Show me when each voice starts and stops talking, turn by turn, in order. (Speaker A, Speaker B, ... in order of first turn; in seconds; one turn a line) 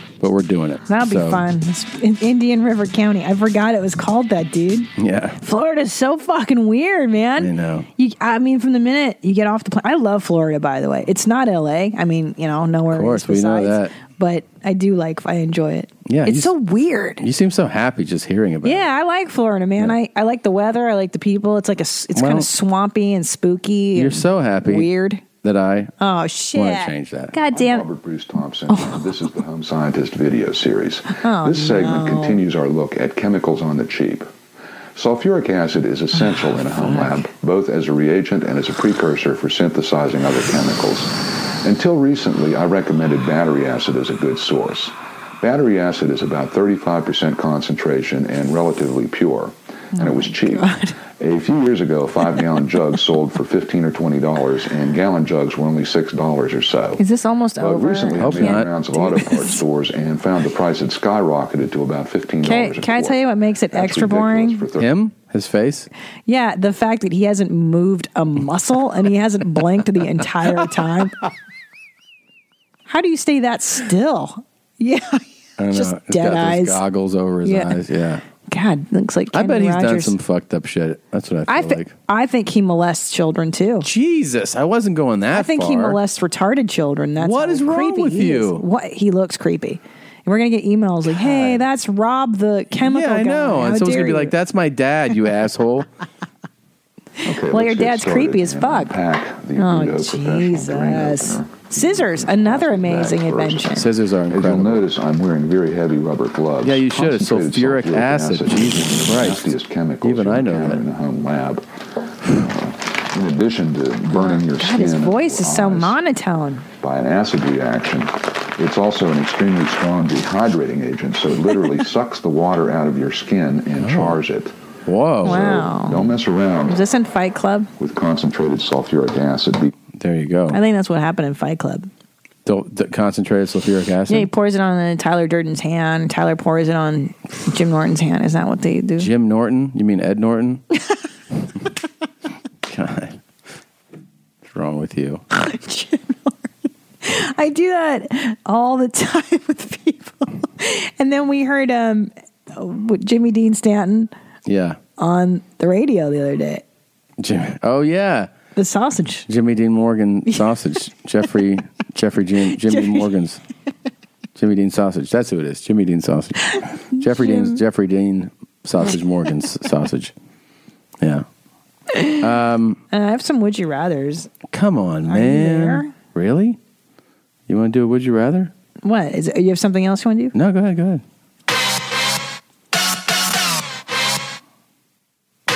Speaker A: 0.2-1.4
Speaker B: 0.9-4.9
Speaker A: 5.0-5.4
Speaker B: 5.4-17.2
Speaker A: 7.4-7.9
Speaker A: 12.9-13.9
Speaker A: 16.1-16.5
Speaker A: 17.2-18.9
Speaker B: 18.6-25.2
Speaker A: 22.1-22.5
Speaker A: 23.9-24.9
Speaker A: 25.4-25.9
Speaker B: 26.0-27.9
Speaker A: 26.5-27.4
Speaker C: 27.5-34.3
Speaker B: 28.7-29.1
Speaker B: 31.2-32.4
Speaker C: 35.0-50.7
Speaker B: 36.2-37.1
Speaker B: 50.0-51.0
Speaker C: 51.2-57.0
Speaker B: 57.0-59.6
Speaker C: 57.6-63.2
Speaker A: 58.2-58.7
Speaker B: 62.4-64.7
Speaker C: 63.7-65.0
Speaker A: 64.8-65.9
Speaker B: 66.3-71.1
Speaker B: 72.9-76.8
Speaker A: 75.6-78.2
Speaker B: 77.4-77.8
Speaker B: 78.5-80.1
Speaker A: 79.3-81.9
Speaker B: 81.5-83.9
Speaker A: 83.8-86.0
Speaker B: 85.3-94.3
Speaker A: 87.2-88.6
Speaker A: 91.1-91.6
Speaker A: 92.8-95.9
Speaker C: 97.2-103.7
Speaker B: 97.5-98.9
Speaker B: 99.6-103.9
Speaker A: 103.7-104.9
Speaker C: 104.3-111.6
Speaker A: 106.6-110.8
Speaker C: 112.2-116.0
Speaker B: 114.1-116.7
Speaker C: 116.8-124.5
Speaker A: 123.8-124.2
Speaker A: 124.9-125.7
Speaker C: 125.2-126.8
Speaker B: 125.2-126.1
Speaker B: 126.7-127.7
Speaker C: 127.8-129.7
Speaker A: 129.9-130.6
Speaker B: 130.5-131.9
Speaker A: 132.4-134.3
Speaker B: 134.1-139.1
Speaker A: 139.0-140.6
Speaker A: 142.6-143.2
Speaker A: 144.4-145.2
Speaker B: 145.4-146.5
Speaker B: 147.0-154.1
Speaker A: 154.5-154.8
Speaker B: 155.0-156.6
Speaker A: 157.2-158.3
Speaker B: 158.6-159.2
Speaker A: 159.3-163.4
Speaker B: 162.6-163.1
Speaker A: 164.4-170.1
Speaker B: 166.5-167.6
Speaker A: 171.0-171.2
Speaker B: 171.9-172.2
Speaker A: 172.2-172.8
Speaker B: 172.9-174.3
Speaker A: 174.5-176.6
Speaker B: 175.1-175.9
Speaker A: 177.5-178.5
Speaker B: 178.8-180.3
Speaker A: 180.3-181.0